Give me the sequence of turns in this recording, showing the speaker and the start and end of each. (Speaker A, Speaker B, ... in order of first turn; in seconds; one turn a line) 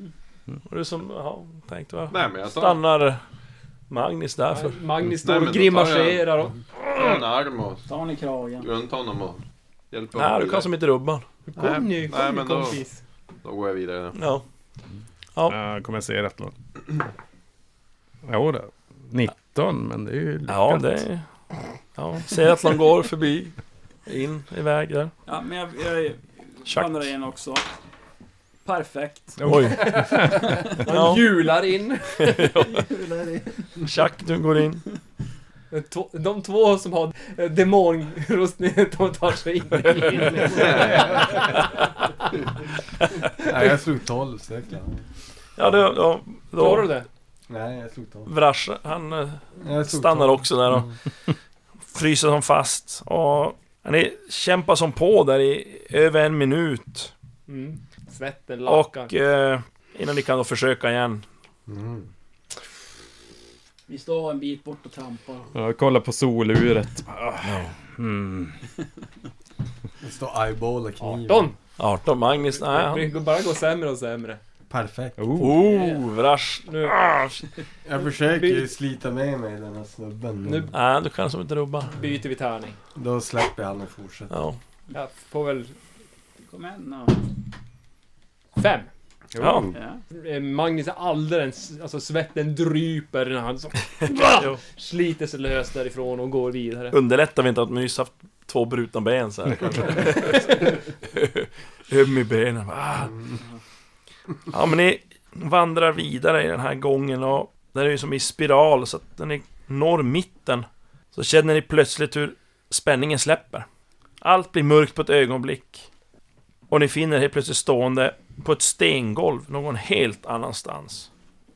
Speaker A: 0.7-3.2
Speaker B: 2.1-2.8
Speaker A: 3.9-4.8
Speaker C: 4.5-6.6
Speaker B: 5.2-6.3
Speaker A: 6.9-7.2
Speaker B: 6.9-7.8
Speaker D: 7.8-8.7
Speaker B: 8.6-9.4
Speaker B: 9.9-10.7
Speaker A: 10.1-11.2
Speaker C: 11.5-13.0
Speaker B: 11.5-12.8
Speaker B: 13.4-14.2
Speaker A: 14.1-14.4
Speaker E: 15.5-16.5
Speaker E: 18.2-21.0
Speaker A: 20.5-21.2
Speaker A: 21.9-23.5
Speaker A: 24.1-25.1
Speaker D: 25.2-27.7
Speaker A: 26.6-27.1
Speaker D: 28.6-29.6
Speaker E: 29.4-30.4
Speaker A: 29.4-30.0
Speaker C: 29.8-33.4
Speaker A: 30.8-31.3
Speaker A: 32.2-32.8
Speaker A: 33.8-34.8
Speaker C: 35.7-41.8
Speaker A: 40.4-40.6
Speaker B: 40.5-41.1
Speaker F: 43.4-45.0
Speaker A: 45.6-46.9
Speaker C: 46.5-47.1
Speaker F: 47.5-48.3
Speaker A: 48.3-50.9
Speaker F: 49.6-50.5
Speaker A: 51.9-57.1
Speaker C: 57.5-59.1
Speaker A: 58.7-61.2
Speaker F: 61.7-62.1
Speaker D: 63.9-65.5
Speaker E: 65.5-68.6
Speaker A: 67.4-67.7
Speaker F: 70.0-71.5
Speaker C: 71.0-71.5
Speaker A: 71.8-73.1
Speaker C: 72.5-74.4
Speaker F: 74.7-75.2
Speaker E: 75.2-75.7
Speaker A: 75.4-77.4
Speaker D: 75.6-76.0
Speaker C: 76.7-77.0
Speaker F: 77.8-80.7
Speaker C: 78.2-78.7
Speaker C: 80.4-80.7
Speaker A: 80.7-81.9
Speaker C: 81.9-82.8
Speaker F: 82.9-84.3
Speaker A: 84.3-84.6
Speaker C: 84.9-85.8
Speaker D: 86.5-87.2
Speaker C: 88.6-88.9
Speaker E: 89.3-89.7
Speaker A: 89.4-89.7
Speaker D: 89.7-90.0
Speaker C: 90.1-96.9
Speaker A: 94.3-94.6
Speaker A: 96.9-103.2
Speaker A: 104.5-113.6
Speaker A: 114.2-115.9
Speaker A: 116.7-121.1